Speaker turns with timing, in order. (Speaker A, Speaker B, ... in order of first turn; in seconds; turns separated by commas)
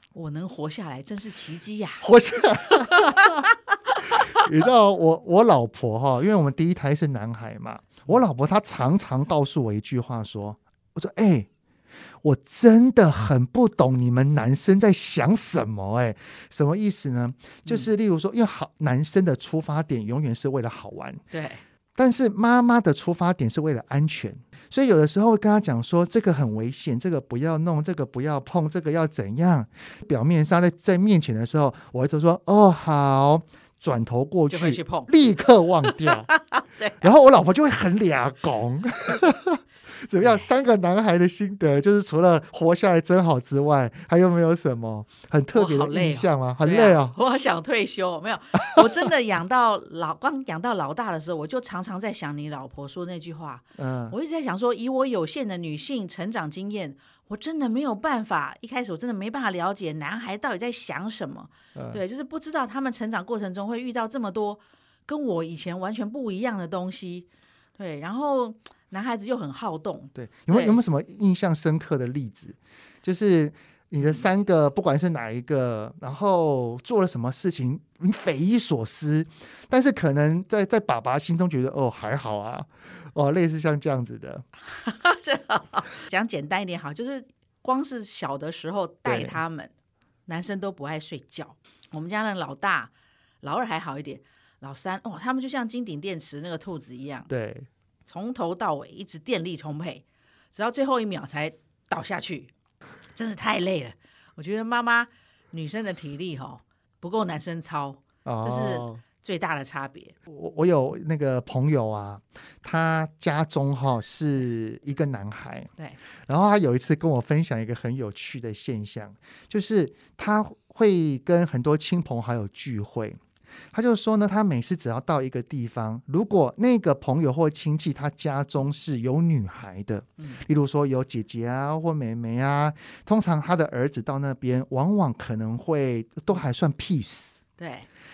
Speaker A: 0.1-2.1, Speaker B: 2.0-3.5, Speaker A: 2.7-4.4, Speaker B: 4.1-11.5, Speaker B: 12.2-21.2, Speaker A: 21.3-21.6, Speaker B: 22.0-36.3, Speaker A: 34.5-35.1, Speaker A: 35.8-37.1, Speaker B: 37.0-47.2, Speaker A: 45.5-67.3, Speaker B: 53.8-54.2, Speaker B: 61.8-62.0, Speaker A: 67.8-70.8, Speaker B: 70.2-84.5, Speaker A: 84.7-89.7, Speaker B: 89.1-89.4, Speaker A: 90.3-97.3, Speaker B: 97.3-97.7, Speaker A: 98.1-102.5, Speaker A: 103.2-110.2, Speaker B: 108.2-109.0, Speaker B: 110.3-115.7, Speaker B: 116.3-123.2, Speaker B: 123.7-137.4, Speaker A: 137.6-137.9